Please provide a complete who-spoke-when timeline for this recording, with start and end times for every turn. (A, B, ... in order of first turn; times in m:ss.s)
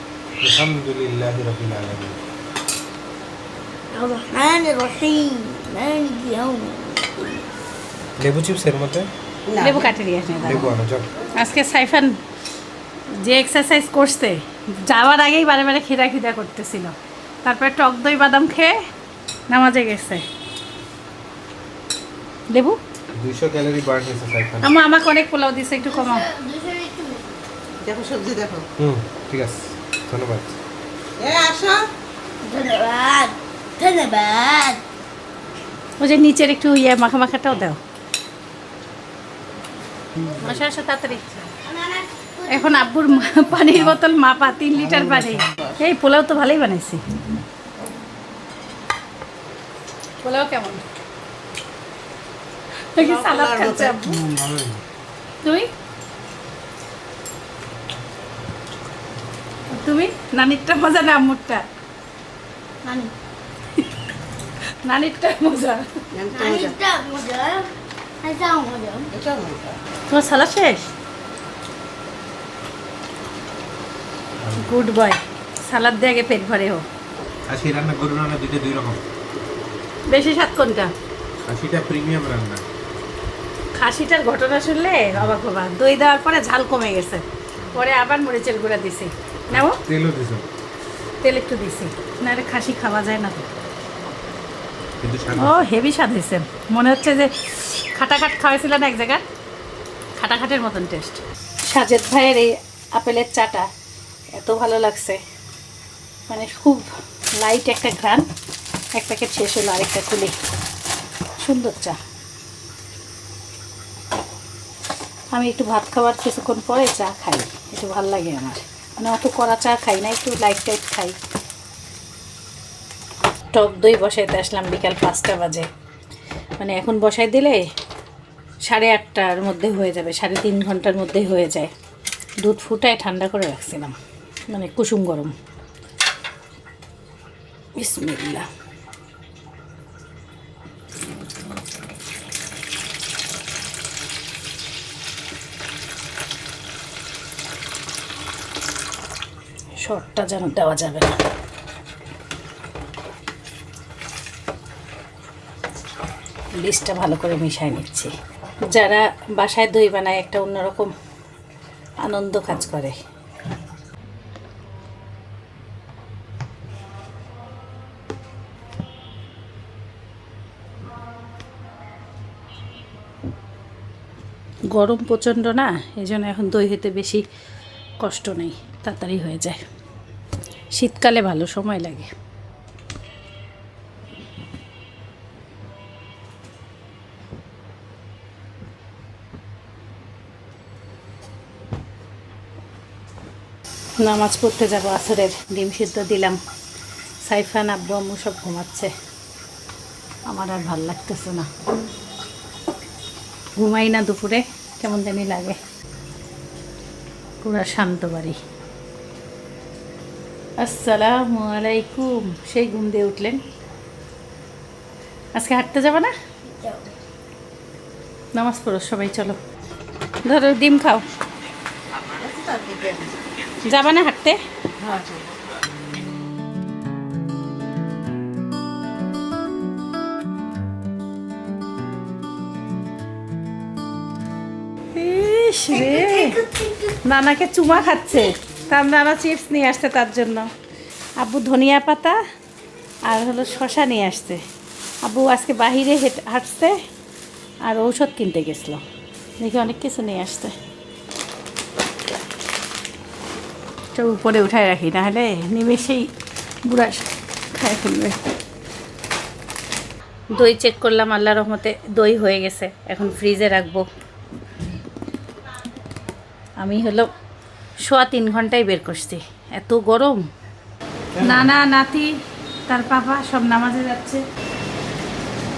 0:00.4-0:02.2 A
0:03.9-0:07.4 B
0:08.2-0:09.1 A
0:09.5-0:09.9 C
0:09.6-0:10.7 D
0:10.4-0:11.1 A
0:11.4-0:12.1 D
0:13.2-0:18.8 D
0:19.5-0:20.2 D
0:22.5-0:22.8 D
0:23.2-0:24.7 A
0:24.6-0:26.2 D
0:25.8-0:27.4 B
0:27.8-0:28.6 C
0:28.8-0:30.6 A
0:31.2-0:31.8 C
0:32.4-0:34.8 B
0:36.0-0:37.8 D
0:40.4-0:41.5 D
0:41.6-0:43.4 B
0:42.5-0:47.0 D
0:44.8-0:45.8 C
0:50.2-0:50.8 D
0:52.9-0:54.2 D
0:53.0-0:54.1 C
0:54.2-0:54.8 A
0:55.4-0:55.7 D
0:59.7-1:01.6 D
1:02.8-1:03.1 B
1:04.8-1:05.8 D
1:06.1-1:06.7 C
1:06.3-1:07.7 B
1:08.2-1:09.1 B
1:09.1-1:09.8 C
1:10.1-1:10.8 D
1:14.4-1:14.7 A
1:14.6-1:16.8 D
1:17.5-1:19.0 A
1:20.1-1:20.9 D
1:21.5-1:22.6 A
1:23.8-1:29.8 D
1:29.5-1:30.4 A
1:31.2-1:33.5 D
1:35.0-1:35.6 A
1:35.4-1:39.2 D
1:40.2-1:43.7 D
1:44.3-1:45.2 D
1:46.3-1:46.9 D
1:47.4-1:48.2 D
1:48.9-1:50.3 D
1:51.4-1:52.0 D
1:55.3-2:01.1 D
2:03.5-2:05.7 D
2:06.6-2:07.6 D
2:08.6-2:11.7 D
2:12.4-2:14.0 D
2:14.5-2:15.3 D
2:17.8-2:18.5 D
2:29.8-2:31.1 D
2:36.6-2:38.1 D
2:38.7-2:40.9 D
2:42.0-2:43.0 D
2:54.7-2:57.2 D
2:58.0-2:59.6 D
3:00.7-3:02.1 D
3:14.0-3:16.4 D
3:17.2-3:18.9 D
3:20.3-3:21.5 D
3:23.6-3:25.6 D
3:27.4-3:28.4 D
3:30.6-3:33.4 D
3:35.3-3:36.1 D
3:36.4-3:36.9 B
3:38.4-3:39.4 D
3:40.2-3:41.0 D
3:42.1-3:43.1 C
3:43.6-3:44.4 D
3:44.8-3:45.3 C
3:55.0-3:56.4 D
3:55.7-3:57.0 B
3:57.0-4:00.5 D
4:01.2-4:02.2 D
4:03.1-4:04.4 D
4:05.0-4:06.7 D
4:07.6-4:08.8 D
4:09.4-4:10.5 D
4:13.9-4:16.1 D
4:16.6-4:18.2 D
4:20.4-4:23.8 D
4:26.6-4:27.1 D
4:27.8-4:30.2 D
4:31.2-4:32.1 D
4:32.7-4:34.2 D